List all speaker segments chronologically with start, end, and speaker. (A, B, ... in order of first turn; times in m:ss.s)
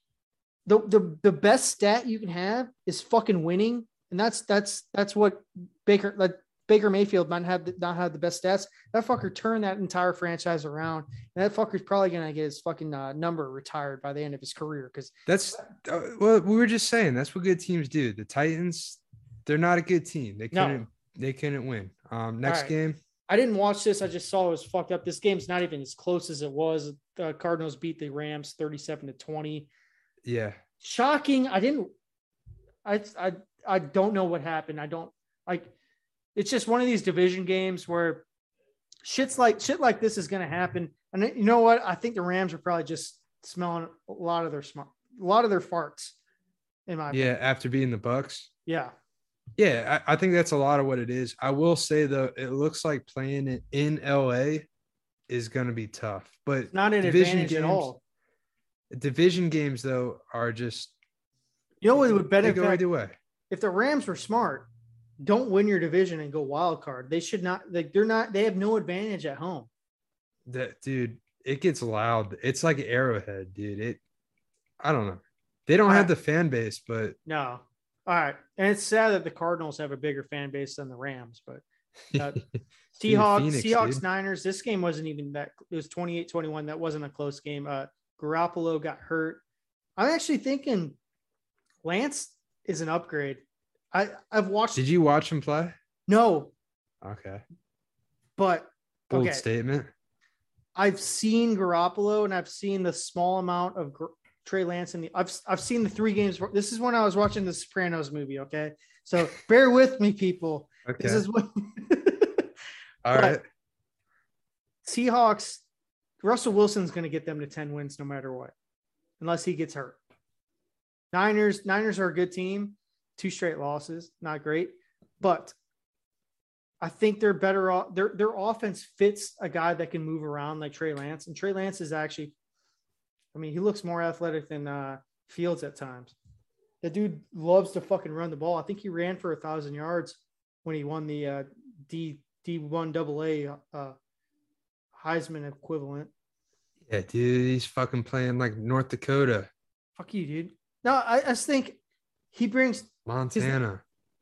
0:00.7-0:15.2 A
0:15.3-0:23.0 B
0:20.5-0:20.8 A
0:22.4-0:22.7 A
0:23.3-0:29.7 A
0:30.2-0:30.6 B
0:30.8-0:31.9 A
0:32.8-0:35.7 A
0:36.4-0:38.2 A
0:39.0-0:46.2 A
0:46.9-0:47.3 A
0:47.1-0:48.5 B
0:48.7-0:48.9 A
0:49.6-0:54.7 B
0:55.3-0:57.9 B
0:56.7-0:58.0 A
0:58.9-1:00.9 B
1:01.8-1:02.8 A
1:01.9-1:03.2 B
1:03.5-1:04.7 A
1:05.2-1:09.7 A
1:10.5-1:14.0 B
1:14.8-1:17.2 B
1:15.9-1:16.1 A
1:17.3-1:21.6 A
1:22.1-1:22.4 B
1:23.0-1:29.4 A
1:23.0-1:24.0 B
1:30.0-1:31.0 A
1:31.8-1:33.4 A
1:33.9-1:34.8 A
1:34.8-1:35.8 B
1:36.1-1:36.5 A
1:37.0-1:37.4 B
1:38.4-1:39.4 A
1:39.1-1:39.9 B
1:40.8-1:52.5 A
1:50.9-1:51.2 B
1:53.0-1:53.4 B
1:53.1-1:53.4 A
1:54.8-1:55.6 A
1:56.2-1:58.5 A
1:59.2-2:00.0 A
2:01.1-2:05.6 A
2:06.8-2:12.3 A
2:13.3-2:16.2 A
2:16.8-2:24.0 A
2:25.0-2:26.1 A
2:26.9-2:29.5 B
2:30.0-2:31.8 A
2:32.3-2:33.6 A
2:33.1-2:33.8 B